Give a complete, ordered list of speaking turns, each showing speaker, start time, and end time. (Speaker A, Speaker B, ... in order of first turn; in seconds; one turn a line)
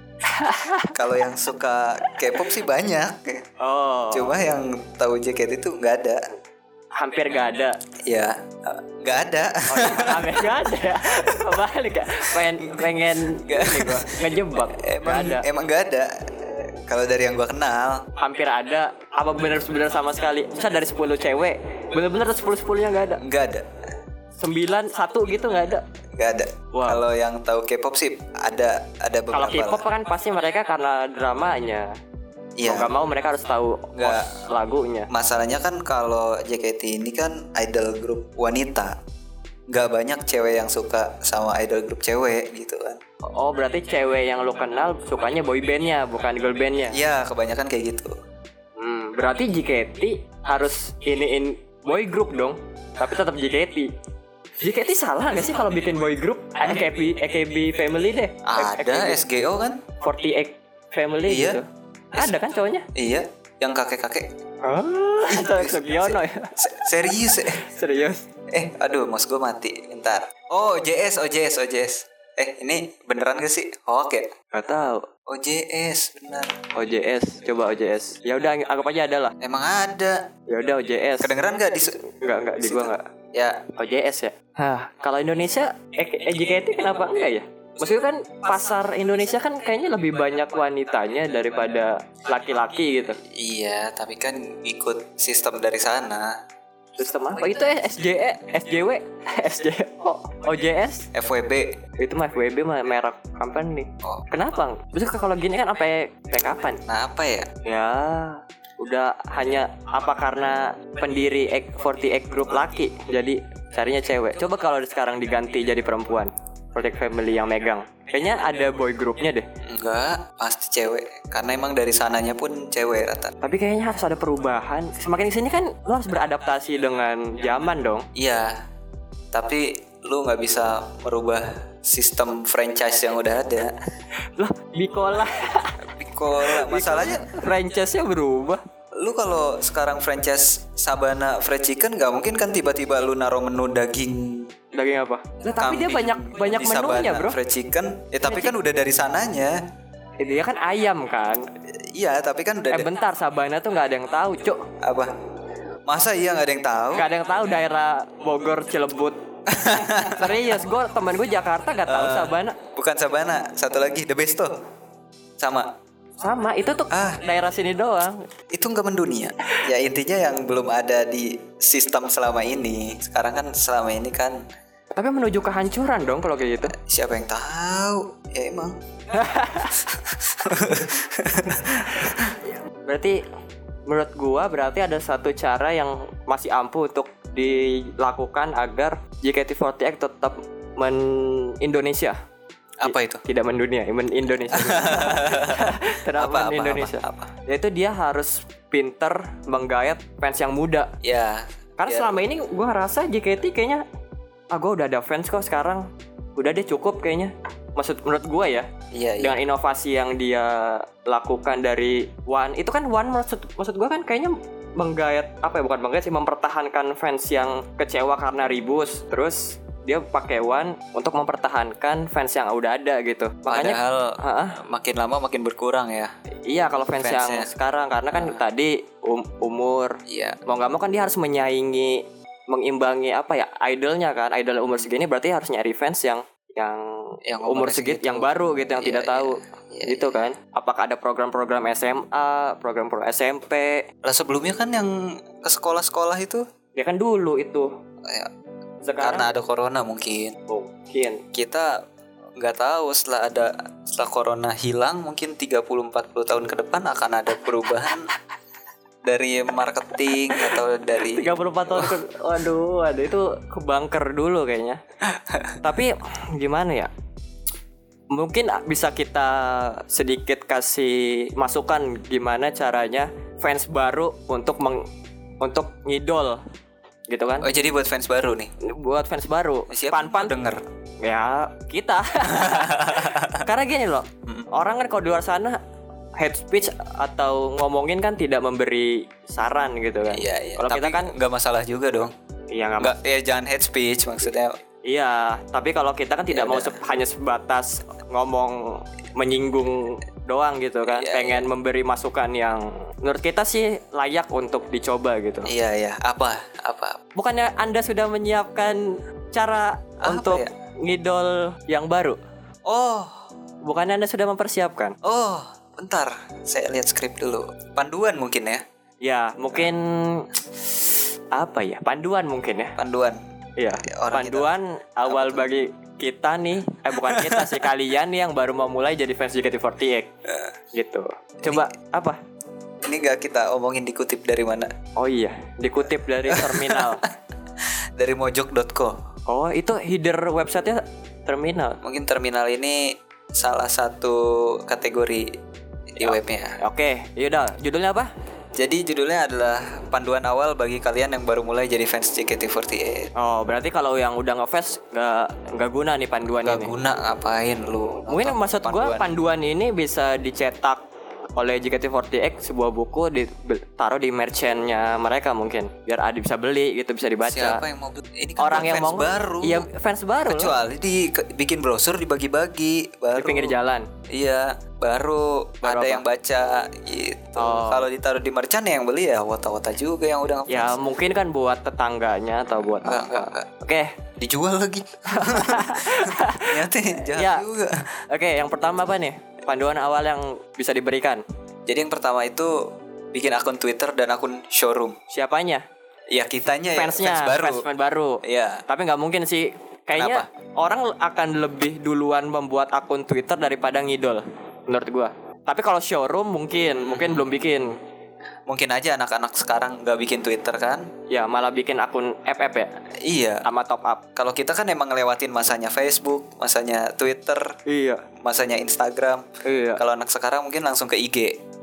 Speaker A: 0.2-0.9
Speaker B: 0.9-3.4
Speaker A: 3.6-4.3
Speaker B: 4.1-6.2
Speaker A: 7.0-7.8
Speaker B: 8.0-10.5
Speaker A: 9.7-15.4
Speaker B: 11.0-11.4
Speaker B: 12.6-14.2
Speaker B: 14.8-18.0
Speaker A: 18.2-23.2
Speaker B: 23.2-23.7
Speaker A: 24.4-25.8
Speaker B: 26.1-29.8
Speaker A: 26.7-27.0
Speaker A: 29.3-31.9
Speaker B: 32.6-32.9
Speaker A: 32.6-35.1
Speaker B: 33.9-34.4
Speaker B: 35.1-38.9
Speaker B: 39.7-43.0
Speaker A: 43.2-47.0
Speaker B: 46.9-48.1
Speaker A: 48.8-53.9
Speaker A: 54.6-59.2
Speaker B: 58.4-59.8
Speaker A: 60.0-62.9
Speaker B: 61.3-61.6
Speaker B: 62.9-64.3
Speaker A: 64.6-66.6
Speaker B: 65.3-67.6
Speaker A: 67.5-68.2
Speaker B: 68.5-74.3
Speaker A: 74.5-75.1
Speaker B: 75.3-76.5
Speaker A: 76.7-79.3
Speaker B: 79.4-80.2
Speaker A: 80.5-81.3
Speaker B: 81.2-82.0
Speaker A: 82.0-83.0
Speaker B: 82.6-83.6
Speaker A: 83.7-93.2
Speaker B: 93.3-96.4
Speaker A: 97.0-101.1
Speaker B: 101.1-101.7
Speaker A: 102.0-106.8
Speaker B: 106.9-107.5
Speaker A: 107.6-119.4
Speaker B: 119.6-123.3
Speaker A: 123.4-128.1
Speaker B: 128.1-128.6
Speaker B: 129.3-133.7
Speaker A: 134.3-135.8
Speaker B: 135.8-137.3
Speaker A: 136.4-138.6
Speaker B: 139.0-144.5
Speaker A: 144.7-147.4
Speaker B: 145.6-149.6
Speaker A: 148.2-148.5
Speaker A: 150.2-151.4
Speaker B: 151.9-152.9
Speaker A: 152.7-154.7
Speaker B: 154.8-155.1
Speaker B: 155.9-157.1
Speaker A: 156.9-159.2
Speaker B: 159.5-160.4
Speaker A: 159.9-162.6
Speaker B: 161.9-164.6
Speaker B: 165.4-165.7
Speaker A: 166.2-168.2
Speaker B: 166.9-167.2
Speaker B: 168.5-174.4
Speaker A: 174.9-176.7
Speaker B: 176.7-178.8
Speaker A: 179.1-179.8
Speaker B: 179.8-182.4
Speaker A: 182.8-183.2
Speaker A: 183.9-192.2
Speaker B: 192.8-193.2
Speaker A: 192.8-200.9
Speaker B: 194.5-197.3
Speaker B: 201.0-202.1
Speaker A: 201.8-203.8
Speaker A: 204.5-224.6
Speaker B: 208.9-209.4
Speaker B: 223.4-226.1
Speaker A: 226.5-243.8
Speaker B: 227.0-227.5
Speaker B: 228.1-228.4
Speaker B: 230.1-230.4
Speaker B: 237.3-240.2
Speaker B: 244.0-246.4
Speaker A: 246.8-247.7
Speaker B: 248.0-248.3
Speaker A: 248.8-249.3
Speaker B: 249.0-250.4
Speaker A: 250.5-251.2
Speaker B: 251.3-251.8
Speaker B: 252.4-258.1
Speaker B: 259.0-261.9
Speaker A: 260.3-264.8
Speaker B: 265.3-265.6
Speaker A: 265.6-266.9
Speaker A: 268.1-274.9
Speaker A: 275.4-276.4
Speaker A: 277.1-277.5
Speaker B: 277.4-278.5
Speaker A: 278.6-280.3
Speaker B: 279.7-280.6
Speaker A: 281.0-285.6
Speaker B: 282.2-283.4
Speaker A: 286.2-291.1
Speaker B: 290.1-292.1
Speaker A: 292.5-292.9
Speaker B: 292.8-294.5
Speaker A: 294.8-305.5
Speaker B: 296.3-296.8
Speaker B: 300.9-301.4
Speaker B: 305.4-307.0
Speaker A: 307.1-312.2
Speaker B: 310.0-310.5
Speaker B: 312.6-313.2
Speaker A: 313.6-314.9
Speaker B: 315.0-318.6
Speaker A: 319.0-320.3
Speaker A: 321.3-322.8
Speaker B: 322.8-323.2
Speaker A: 323.6-330.1
Speaker B: 323.8-324.5
Speaker B: 325.1-325.5
Speaker B: 327.0-327.6
Speaker A: 330.7-332.2
Speaker B: 332.8-334.7
Speaker A: 334.9-337.0
Speaker B: 336.3-337.1
Speaker B: 338.0-338.9
Speaker A: 339.3-341.8
Speaker B: 341.8-345.3
Speaker B: 345.9-346.6
Speaker A: 346.0-348.1
Speaker B: 348.6-353.1
Speaker A: 353.1-356.7
Speaker B: 356.4-359.1
Speaker A: 358.1-360.8
Speaker A: 361.4-367.6
Speaker B: 367.3-369.7
Speaker A: 368.4-370.5
Speaker B: 370.2-373.5
Speaker A: 373.1-373.9
Speaker B: 374.1-380.8
Speaker A: 375.6-376.0
Speaker A: 377.4-377.8
Speaker A: 380.5-384.0
Speaker B: 382.8-383.5
Speaker B: 384.2-387.9
Speaker A: 385.1-387.4
Speaker A: 388.1-391.2
Speaker B: 391.7-395.0
Speaker A: 395.1-395.6
Speaker B: 396.1-397.6
Speaker A: 396.7-407.8
Speaker B: 398.2-398.6
Speaker B: 399.9-400.3
Speaker B: 406.8-407.2
Speaker B: 408.5-410.9
Speaker A: 411.1-412.7
Speaker B: 413.0-413.4
Speaker A: 413.4-414.0
Speaker B: 414.1-417.5
Speaker A: 417.6-418.0
Speaker B: 418.1-421.4
Speaker A: 419.4-419.8